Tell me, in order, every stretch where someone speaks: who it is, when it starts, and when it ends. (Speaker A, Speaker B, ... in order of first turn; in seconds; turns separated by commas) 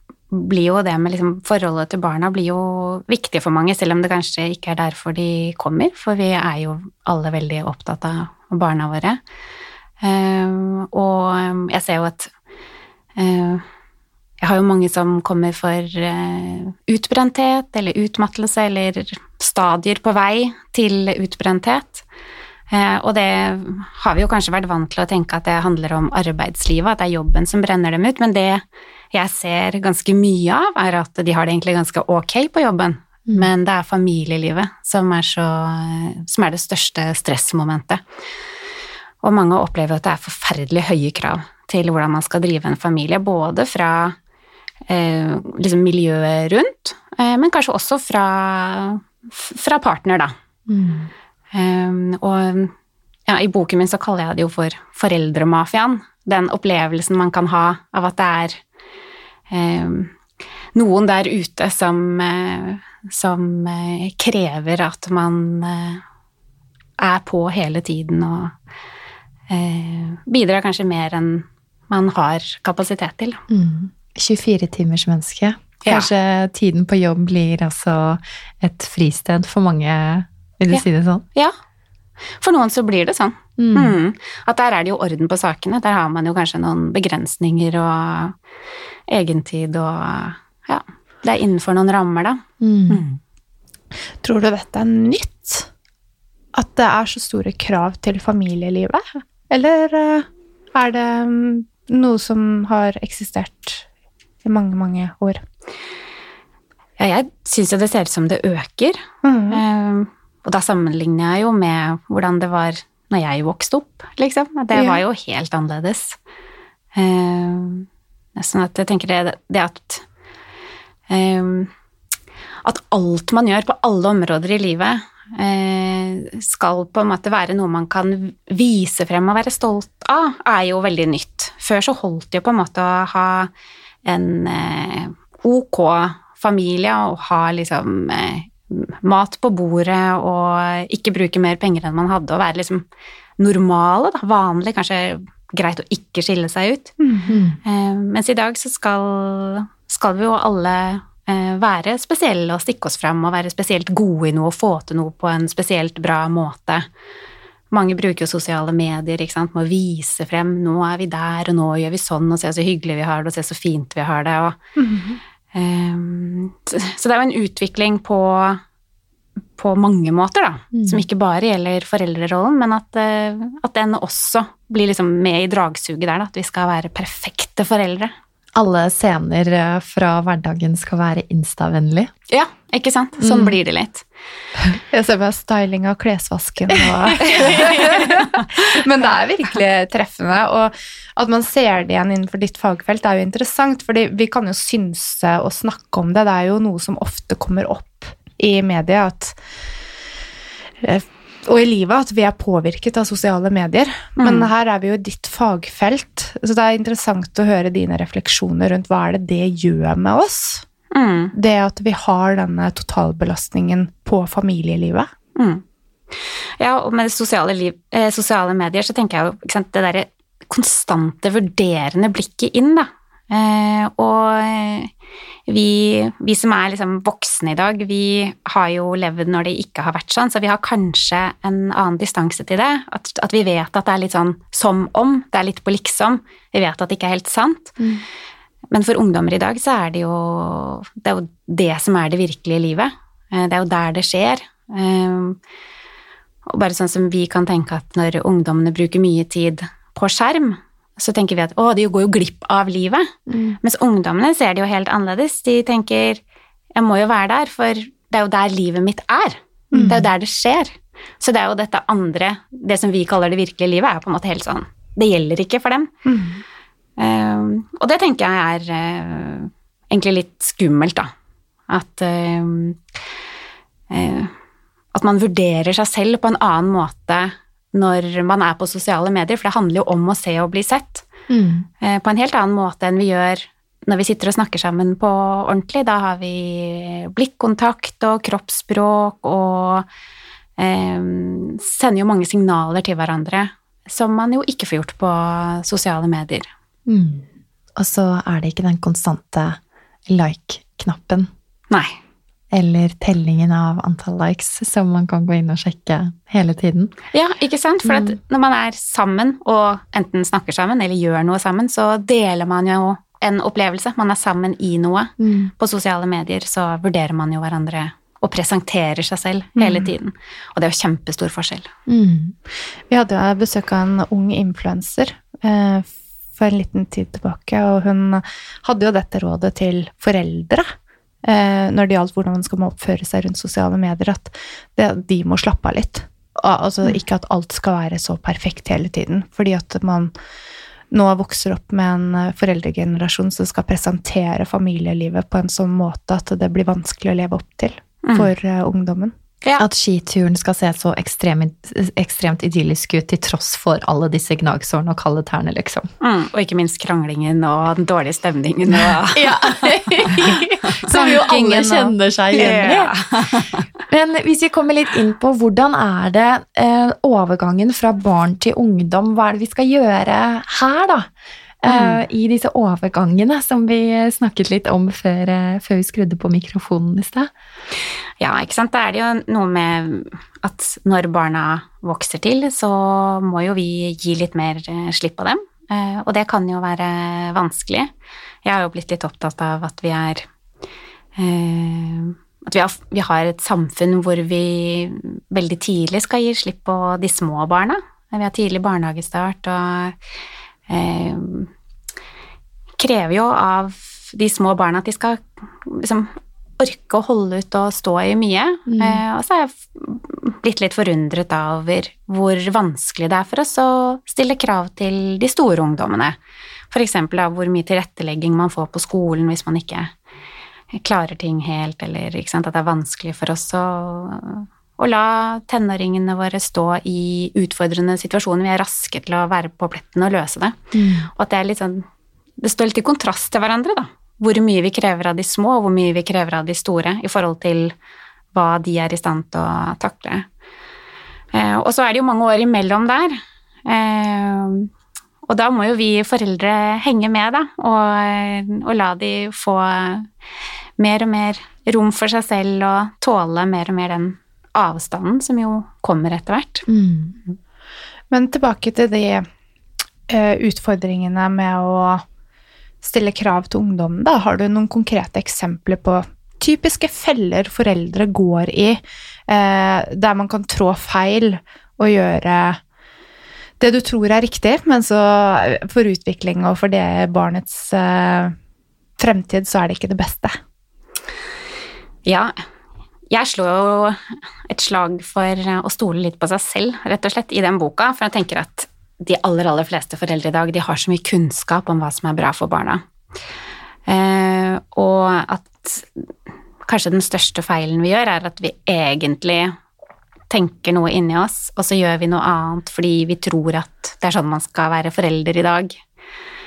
Speaker A: 0.3-9.2, Speaker A: 10.0-12.3, Speaker A: 13.2-13.6, Speaker A: 14.4-22.0, Speaker A: 22.7-38.0, Speaker A: 39.2-44.2, Speaker A: 44.9-50.3, Speaker B: 50.7-51.1, Speaker A: 51.5-52.7, Speaker A: 53.3-58.6, Speaker A: 59.5-60.1, Speaker A: 60.7-66.0, Speaker A: 67.0-68.5, Speaker A: 69.5-73.4, Speaker B: 73.5-81.2, Speaker A: 80.7-81.5, Speaker A: 82.4-88.3, Speaker B: 83.6-84.0, Speaker A: 89.1-93.2, Speaker B: 92.6-93.0, Speaker C: 94.2-95.7, Speaker C: 96.5-103.8, Speaker C: 104.4-105.4, Speaker A: 107.0-116.2, Speaker C: 109.2-109.6, Speaker C: 114.7-115.0, Speaker A: 117.0-120.0, Speaker A: 121.1-121.7, Speaker A: 122.6-133.5, Speaker A: 134.1-142.8, Speaker A: 143.4-146.9, Speaker C: 147.0-147.3, Speaker B: 147.3-147.6, Speaker A: 147.6-156.8, Speaker A: 157.7-164.6, Speaker C: 164.8-165.2, Speaker A: 165.5-168.6, Speaker A: 169.6-178.1, Speaker B: 170.7-171.0, Speaker B: 178.6-182.1, Speaker A: 182.3-184.1, Speaker B: 183.2-183.5, Speaker C: 184.9-199.4, Speaker A: 187.3-188.1, Speaker C: 200.8-210.7, Speaker A: 204.2-204.5, Speaker A: 210.9-211.3, Speaker C: 211.3-215.1, Speaker A: 215.4-224.9, Speaker A: 225.5-237.8, Speaker A: 238.7-245.4, Speaker A: 246.5-256.2, Speaker B: 253.3-253.6, Speaker A: 256.7-265.9, Speaker C: 259.7-260.1, Speaker C: 266.1-266.4, Speaker A: 267.0-271.1, Speaker A: 271.7-272.8, Speaker A: 273.9-274.3, Speaker A: 274.9-281.1, Speaker B: 281.3-281.7, Speaker A: 281.8-289.9, Speaker A: 290.6-296.5, Speaker B: 296.9-301.3, Speaker A: 301.7-302.0, Speaker B: 302.5-306.9, Speaker A: 307.1-321.7, Speaker B: 307.9-308.1, Speaker B: 315.2-315.5, Speaker C: 319.6-319.9, Speaker B: 321.9-322.3, Speaker C: 322.9-340.1, Speaker C: 340.9-349.1, Speaker A: 348.0-348.3, Speaker B: 349.6-355.9, Speaker A: 356.0-359.5, Speaker B: 359.1-362.9, Speaker A: 360.8-363.6, Speaker C: 360.9-361.8, Speaker B: 363.9-371.1, Speaker B: 371.6-377.3, Speaker A: 371.7-372.0, Speaker A: 378.2-387.9, Speaker A: 388.4-390.3, Speaker A: 391.2-400.0, Speaker A: 400.7-401.5, Speaker A: 402.8-416.2, Speaker B: 408.7-409.0, Speaker A: 416.7-419.9, Speaker A: 420.7-430.6, Speaker B: 430.7-431.1, Speaker A: 431.1-431.9, Speaker A: 432.4-437.7, Speaker A: 438.3-440.3, Speaker A: 441.3-444.7, Speaker A: 445.2-450.1, Speaker A: 450.8-456.7, Speaker B: 456.7-457.2, Speaker C: 458.1-459.3, Speaker C: 460.1-462.0, Speaker C: 462.8-472.6, Speaker C: 473.6-478.4, Speaker C: 479.0-480.4, Speaker A: 482.1-482.4, Speaker A: 483.1-492.8, Speaker A: 493.9-496.1, Speaker A: 496.6-499.6, Speaker A: 500.3-505.8